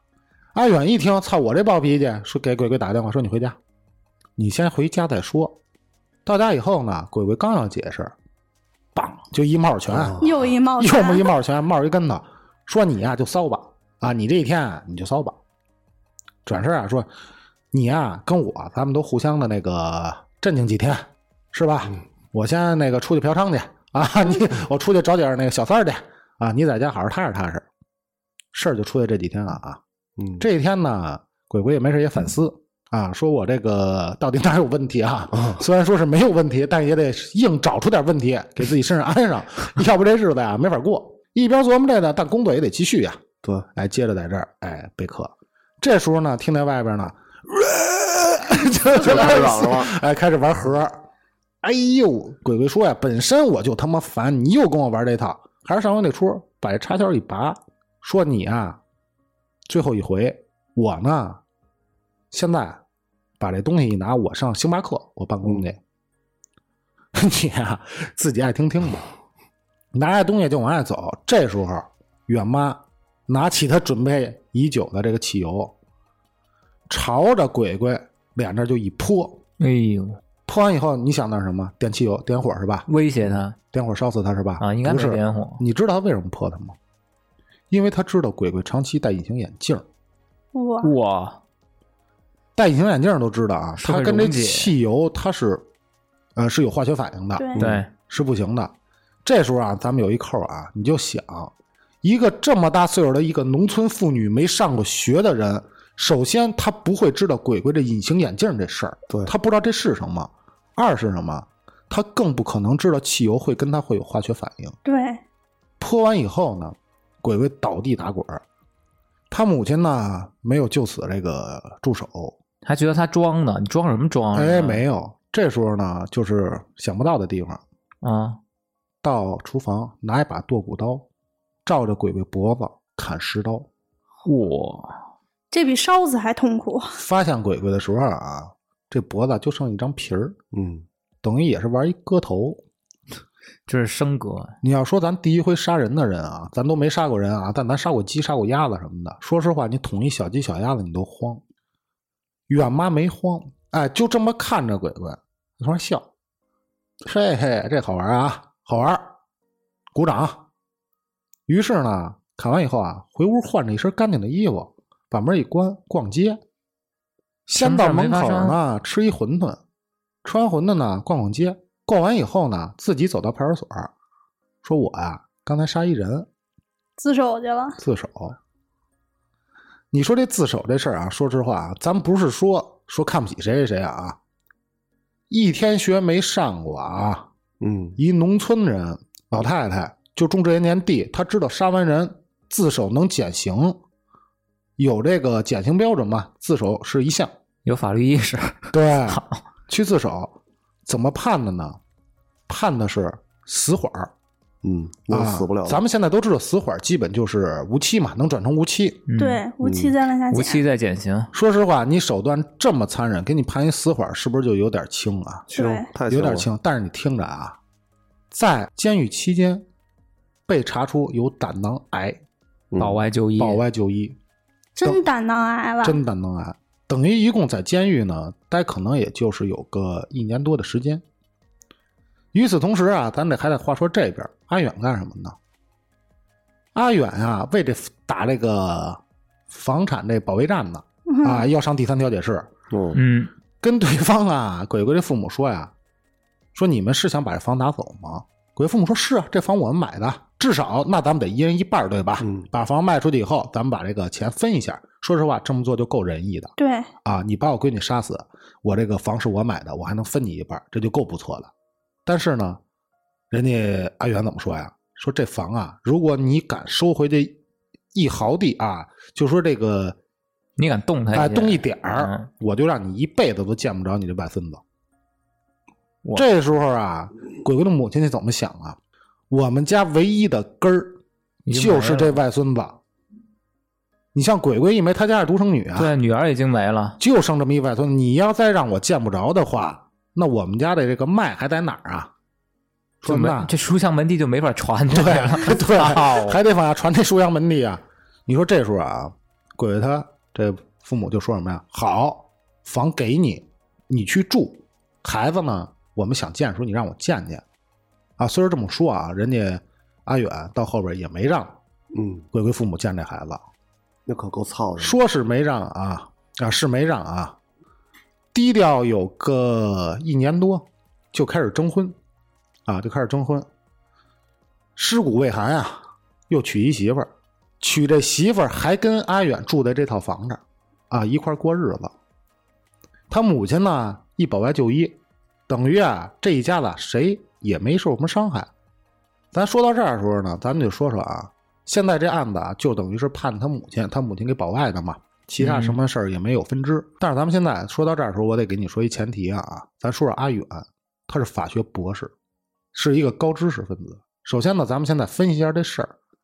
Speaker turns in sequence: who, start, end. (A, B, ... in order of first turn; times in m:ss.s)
0:00.5-0:03.6 A
0:04.4-0:05.6 A
0:06.2-0:08.2 A
0:09.0-0:10.2 A
0:09.9-0:10.3 B
0:10.2-0:11.3 C
0:10.8-0:15.4 A
0:16.5-0:17.1 A
0:17.7-0:27.7 A
0:28.5-0:29.8 A
0:30.2-0:30.4 B
0:30.4-0:43.2 A
0:35.3-0:35.6 B
0:43.7-0:51.0 A
0:48.9-0:49.9 B
0:51.6-0:58.8 A
0:59.7-1:01.4 A
1:02.3-1:02.8 A
1:03.4-1:05.8 A
1:07.1-1:09.1 A
1:09.9-1:15.8 A
1:16.9-1:19.4 A
1:19.6-1:20.2 D
1:20.5-1:22.9 A
1:22.9-1:23.6 D
1:23.7-1:26.8 A
1:24.6-1:25.6 D
1:27.7-1:29.9 A
1:30.5-1:30.9 C
1:30.8-1:31.4 D
1:32.6-1:35.7 A
1:33.8-1:34.8 D
1:36.4-1:54.8 A
1:37.4-1:37.6 C
1:37.6-1:37.8 B
1:37.6-1:37.9 D
1:54.8-1:55.2 C
1:55.8-1:58.4 A
1:59.3-2:02.4 A
2:02.6-2:04.8 D
2:04.3-2:07.6 A
2:08.0-2:08.4 D
2:09.0-2:11.1 A
2:11.7-2:13.7 A
2:14.2-2:15.0 D
2:15.5-2:17.0 C
2:17.0-2:20.4 A
2:20.5-2:20.9 B
2:21.2-2:22.6 A
2:23.7-2:24.5 D
2:24.6-2:31.4 A
2:32.5-2:36.1 A
2:37.0-2:39.1 A
2:39.9-2:40.4 A
2:41.5-2:46.4 A
2:47.5-2:49.6 A
2:47.6-2:48.6 D
2:50.2-2:53.9 A
2:54.6-2:56.3 A
2:57.0-2:57.8 C
2:57.8-2:58.4 A
2:59.9-3:04.2 A
3:05.3-3:07.3 A
3:07.6-3:08.0 B
3:08.0-3:13.8 A
3:14.8-3:17.3 A
3:17.6-3:19.4 D
3:18.7-3:21.8 A
3:22.5-3:24.1 A
3:24.6-3:25.8 B
3:25.1-3:29.1 A
3:29.1-3:29.4 D
3:29.2-3:30.6 C
3:29.6-3:29.9 B
3:30.3-3:31.3 D
3:31.3-3:35.5 A
3:35.5-3:36.5 B
3:35.5-3:35.9 C
3:36.1-3:37.6 A
3:38.3-3:39.7 A
3:40.5-3:42.2 A
3:42.7-3:43.0 B
3:42.8-3:43.6 D
3:43.4-3:44.2 A
3:44.8-3:46.0 C
3:45.8-3:51.0 A
3:52.3-3:55.4 A
3:56.7-4:02.5 A
4:01.1-4:01.5 C
4:02.7-4:03.0 B
4:03.0-4:03.3 D
4:03.6-4:05.7 A
4:06.6-4:21.5 A
4:12.2-4:12.5 B
4:16.6-4:16.9 C
4:22.1-4:22.6 A
4:23.3-4:27.4 A
4:27.9-4:30.0 A
4:30.6-4:32.3 D
4:31.1-4:34.6 A
4:36.2-4:38.8 A
4:39.3-4:41.0 A
4:41.5-4:42.2 D
4:41.5-4:42.8 A
4:44.1-4:45.9 A
4:45.8-4:47.0 D
4:47.0-4:52.1 A
4:53.0-4:53.5 A
4:53.0-4:56.4 D
4:54.9-5:07.4 A
5:08.2-5:11.6 A
5:11.9-5:12.3 B
5:12.3-5:13.4 A
5:14.1-5:15.0 B
5:14.8-5:17.4 A
5:18.3-5:22.0 A
5:22.7-5:23.5 A
5:24.8-5:31.9 A
5:33.1-5:38.5 A
5:39.3-5:52.1 A
5:45.4-5:45.8 D
5:52.7-5:56.0 A